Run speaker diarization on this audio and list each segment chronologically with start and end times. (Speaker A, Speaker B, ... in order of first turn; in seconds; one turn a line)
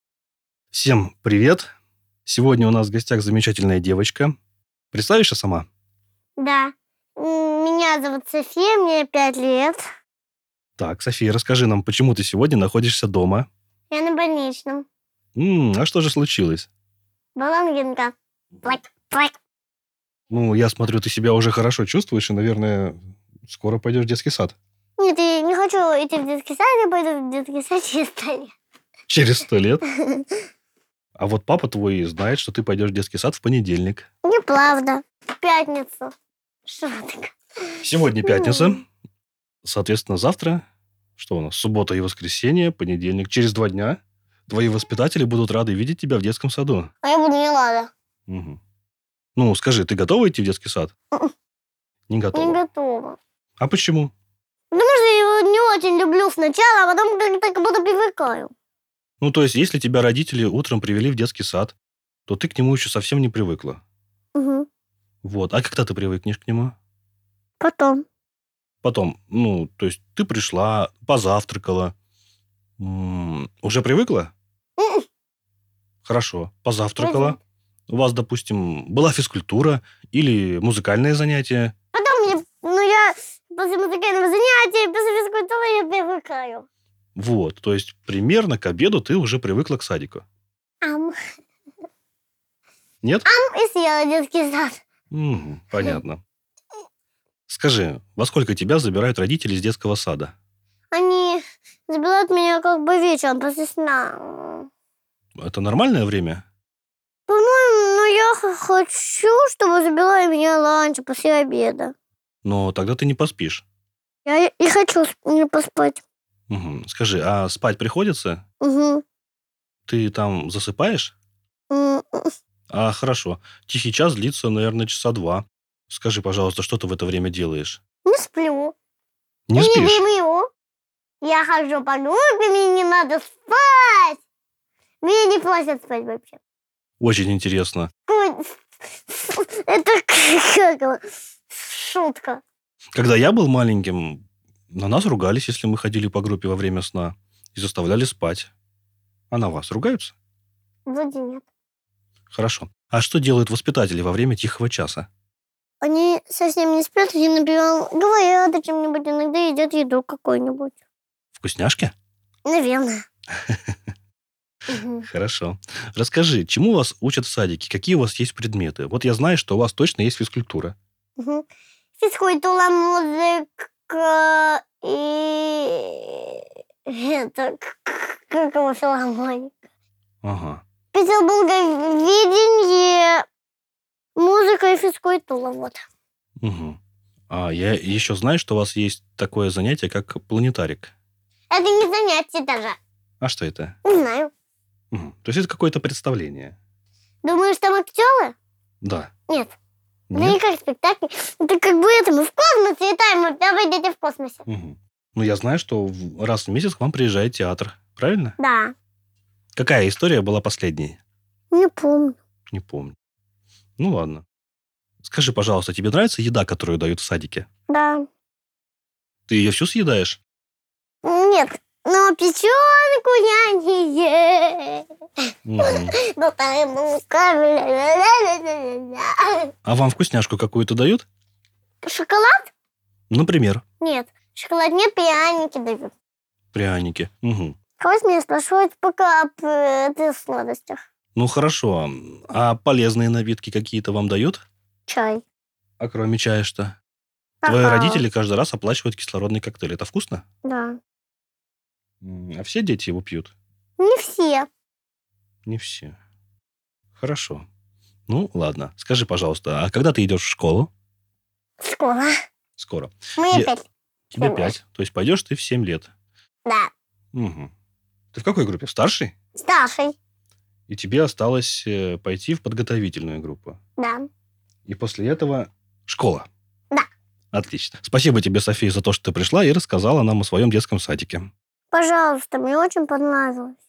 Speaker A: 0.7-1.7
Speaker A: 2.2-4.3
Speaker A: 4.9-5.7
Speaker B: 6.4-9.8
Speaker A: 10.8-13.5
Speaker B: 13.9-14.8
Speaker A: 15.3-16.7
Speaker B: 17.4-19.3
Speaker A: 20.3-24.5
Speaker B: 25.0-28.5
Speaker A: 29.1-29.8
Speaker B: 30.0-30.4
Speaker A: 31.1-34.0
Speaker B: 34.2-36.1
Speaker B: 36.6-37.3
Speaker A: 37.8-38.9
Speaker B: 38.2-38.8
Speaker A: 39.6-40.6
Speaker A: 41.2-46.9
Speaker B: 47.0-47.9
Speaker A: 48.3-48.6
Speaker A: 49.4-50.9
Speaker A: 52.1-52.6
Speaker B: 52.3-53.2
Speaker A: 53.6-54.1
Speaker B: 54.7-58.5
Speaker A: 59.2-61.7
Speaker A: 62.3-63.8
Speaker B: 64.3-64.7
Speaker A: 65.2-66.8
Speaker B: 67.6-68.0
Speaker A: 68.8-71.9
Speaker A: 72.8-74.3
Speaker B: 74.8-75.0
Speaker A: 76.0-77.4
Speaker B: 77.0-77.4
Speaker A: 77.9-81.7
Speaker B: 81.9-86.7
Speaker A: 87.2-90.2
Speaker B: 90.8-91.2
Speaker B: 93.2-94.8
Speaker A: 95.1-96.2
Speaker A: 97.5-100.3
Speaker B: 100.9-104.7
Speaker A: 105.4-106.4
Speaker B: 107.3-111.9
Speaker A: 112.4-113.6
Speaker B: 114.2-116.0
Speaker A: 116.5-118.4
Speaker B: 118.6-119.0
Speaker A: 119.9-121.1
Speaker B: 121.7-122.3
Speaker A: 122.7-127.8
Speaker B: 128.0-128.7
Speaker A: 129.5-130.0
Speaker B: 129.6-130.5
Speaker B: 131.2-134.2
Speaker B: 135.0-136.4
Speaker A: 137.0-137.9
Speaker B: 138.1-142.4
Speaker A: 142.9-148.5
Speaker A: 149.3-150.1
Speaker B: 150.9-151.4
Speaker A: 152.3-155.1
Speaker B: 155.8-160.7
Speaker A: 161.3-161.9
Speaker B: 162.4-163.1
Speaker A: 163.4-163.8
Speaker B: 164.7-165.1
Speaker A: 165.0-170.7
Speaker B: 171.2-171.4
Speaker B: 172.0-179.5
Speaker A: 180.2-180.6
Speaker B: 180.9-183.2
Speaker B: 184.2-185.8
Speaker A: 186.4-186.8
Speaker A: 187.3-190.9
Speaker B: 191.5-192.8
Speaker A: 193.2-193.7
Speaker B: 193.8-194.3
Speaker A: 194.9-196.5
Speaker B: 197.2-198.3
Speaker A: 198.8-199.1
Speaker A: 200.1-200.4
Speaker B: 200.1-204.4
Speaker A: 204.4-208.4
Speaker B: 208.4-208.7
Speaker A: 209.6-211.0
Speaker B: 211.5-212.2
Speaker A: 212.5-212.9
Speaker A: 213.8-214.2
Speaker A: 215.0-217.5
Speaker B: 217.7-218.0
Speaker A: 219.3-220.2
Speaker B: 221.0-224.9
Speaker A: 225.4-225.9
Speaker B: 225.6-229.5
Speaker A: 229.7-231.1
Speaker B: 231.8-232.5
Speaker A: 233.1-233.6
Speaker B: 233.8-235.9
Speaker A: 236.5-237.5
Speaker B: 237.8-240.8
Speaker A: 241.1-244.4
Speaker B: 244.9-245.2
Speaker A: 245.8-246.8
Speaker B: 247.4-248.0
Speaker A: 247.4-250.2
Speaker B: 250.4-250.8
Speaker A: 252.0-253.3
Speaker B: 253.8-254.5
Speaker A: 255.4-255.9
Speaker A: 257.0-257.4
Speaker A: 258.1-260.7
Speaker B: 261.6-262.1
Speaker A: 262.6-263.5
Speaker B: 263.2-263.6
Speaker A: 264.1-265.9
Speaker B: 264.2-264.5
Speaker A: 267.1-267.5
Speaker A: 268.1-269.1
Speaker B: 269.4-269.9
Speaker A: 270.7-273.6
Speaker B: 273.8-274.1
Speaker A: 274.6-276.3
Speaker A: 277.3-281.3
Speaker B: 281.7-283.6